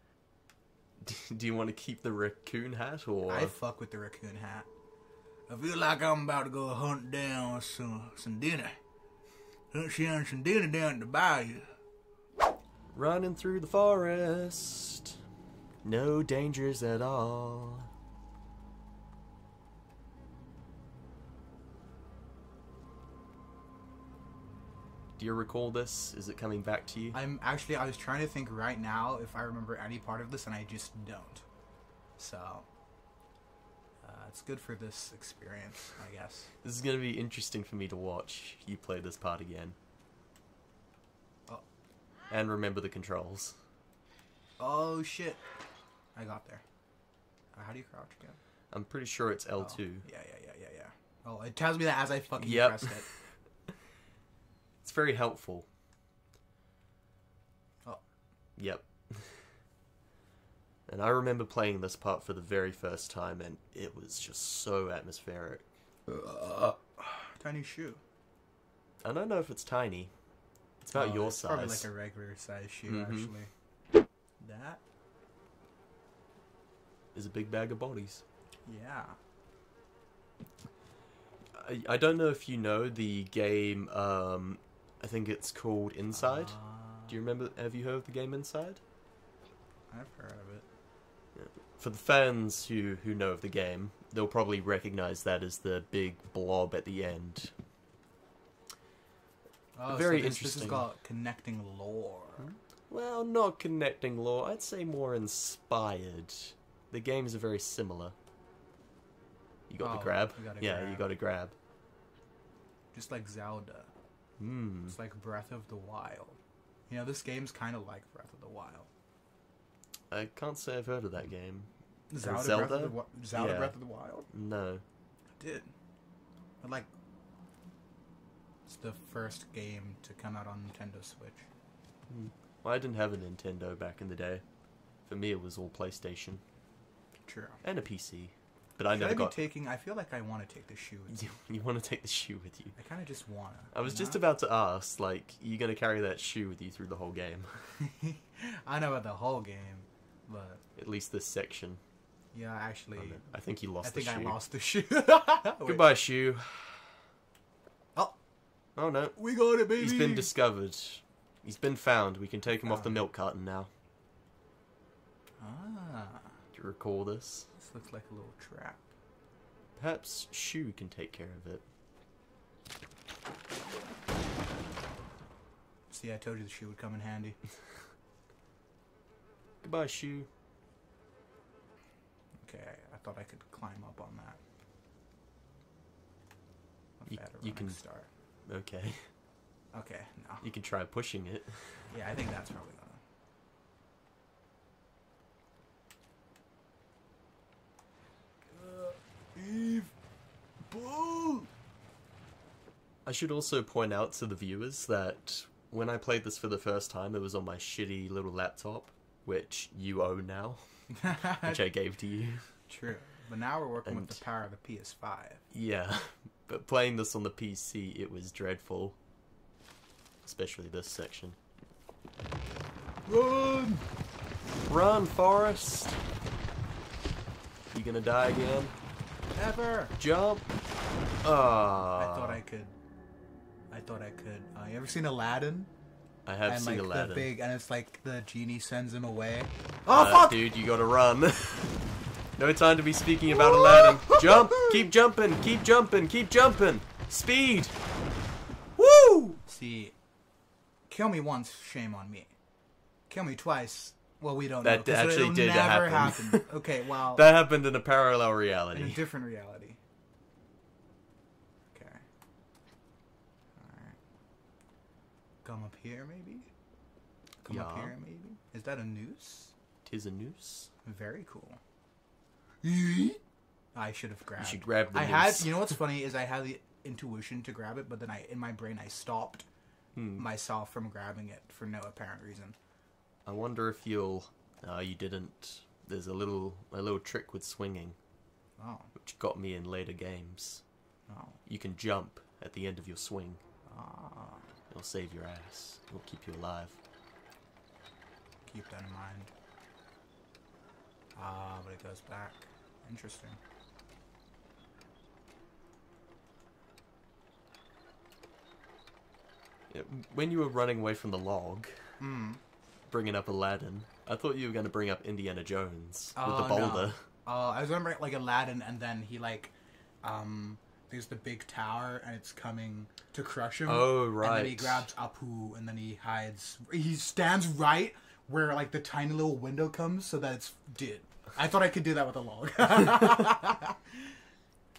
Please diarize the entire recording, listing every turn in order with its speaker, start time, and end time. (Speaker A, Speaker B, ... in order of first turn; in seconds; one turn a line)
Speaker A: 1.0-3.5
Speaker B: 3.3-4.7
Speaker B: 5.5-8.8
Speaker B: 9.7-11.7
Speaker A: 12.9-15.2
Speaker A: 15.8-17.9
Speaker A: 25.2-27.2
Speaker B: 27.1-31.4
Speaker B: 32.2-32.6
Speaker B: 34.0-36.5
Speaker A: 36.6-39.8
Speaker A: 42.3-43.6
Speaker B: 44.6-45.4
Speaker B: 46.1-46.6
Speaker B: 47.5-48.4
Speaker A: 48.7-50.0
Speaker B: 49.6-53.1
Speaker A: 52.4-53.3
Speaker A: 54.8-55.7
Speaker A: 58.5-59.5
Speaker A: 60.9-65.6
Speaker B: 66.1-68.0
Speaker A: 69.0-70.1
Speaker A: 70.8-71.9
Speaker B: 70.9-73.5
Speaker A: 72.9-73.3
Speaker B: 74.4-74.8
Speaker A: 77.1-78.2
Speaker B: 78.7-79.2
Speaker A: 81.5-88.8
Speaker B: 86.1-87.1
Speaker B: 89.9-90.6
Speaker A: 91.3-97.5
Speaker B: 99.7-102.5
Speaker A: 99.9-100.8
Speaker A: 102.4-108.1
Speaker A: 109.7-111.5
Speaker B: 109.8-111.1
Speaker B: 112.9-113.9
Speaker A: 114.4-115.0
Speaker B: 114.9-118.9
Speaker A: 120.1-123.8
Speaker B: 122.1-124.3
Speaker A: 124.3-124.8
Speaker B: 125.4-125.7
Speaker B: 126.6-126.9
Speaker B: 128.7-131.5
Speaker A: 132.1-134.4
Speaker A: 135.1-136.4
Speaker B: 137.3-137.6
Speaker A: 137.6-139.4
Speaker B: 138.9-141.3
Speaker A: 141.1-142.8
Speaker B: 142.8-144.2
Speaker A: 143.7-147.6
Speaker B: 147.8-150.6
Speaker A: 150.8-151.8
Speaker B: 152.3-155.8
Speaker A: 153.0-154.4
Speaker A: 155.7-157.0
Speaker A: 158.8-159.2
Speaker B: 159.2-160.3
Speaker A: 159.8-163.7
Speaker B: 162.6-163.0
Speaker B: 165.4-166.3
Speaker A: 166.5-167.5
Speaker B: 167.6-168.9
Speaker A: 169.8-171.6
Speaker B: 175.9-177.4
Speaker A: 179.6-180.3
Speaker B: 182.4-184.4
Speaker B: 187.0-188.1
Speaker A: 187.1-187.8
Speaker A: 188.4-189.1
Speaker B: 189.7-190.4
Speaker A: 190.4-191.9
Speaker B: 191.9-193.0
Speaker B: 198.5-199.9
Speaker B: 200.7-201.5
Speaker A: 203.0-210.6
Speaker B: 210.9-211.6
Speaker A: 211.2-212.5
Speaker B: 212.7-215.4
Speaker A: 213.9-214.2
Speaker A: 215.5-218.9
Speaker A: 220.2-221.4
Speaker B: 223.1-223.9
Speaker A: 224.7-226.0
Speaker A: 227.7-228.7
Speaker B: 229.3-229.9
Speaker A: 230.0-230.4
Speaker A: 231.2-232.4
Speaker B: 231.8-232.7
Speaker B: 233.7-235.7
Speaker A: 236.2-237.3
Speaker B: 236.4-240.4
Speaker A: 239.9-247.8
Speaker B: 243.3-244.8
Speaker B: 248.8-249.9
Speaker B: 250.9-252.3
Speaker B: 253.1-257.2
Speaker A: 254.6-256.5
Speaker A: 257.1-259.0
Speaker B: 258.7-259.8
Speaker B: 261.7-262.0
Speaker B: 263.6-263.9
Speaker B: 265.4-266.5
Speaker B: 267.4-269.5
Speaker A: 267.5-267.9
Speaker A: 269.8-270.7
Speaker B: 270.8-271.6
Speaker B: 272.6-273.2
Speaker B: 273.7-279.4
Speaker A: 274.4-275.8
Speaker A: 279.9-280.3
Speaker B: 280.2-282.6
Speaker A: 283.2-288.0
Speaker B: 288.6-288.9
Speaker A: 288.9-290.6
Speaker B: 291.1-291.4
Speaker A: 291.4-293.4
Speaker B: 293.7-294.4
Speaker A: 294.7-296.8
Speaker B: 298.4-299.3
Speaker B: 301.1-303.4
Speaker A: 309.7-311.8
Speaker B: 312.0-312.4
Speaker A: 312.9-317.0
Speaker B: 316.1-334.0
Speaker A: 323.6-324.9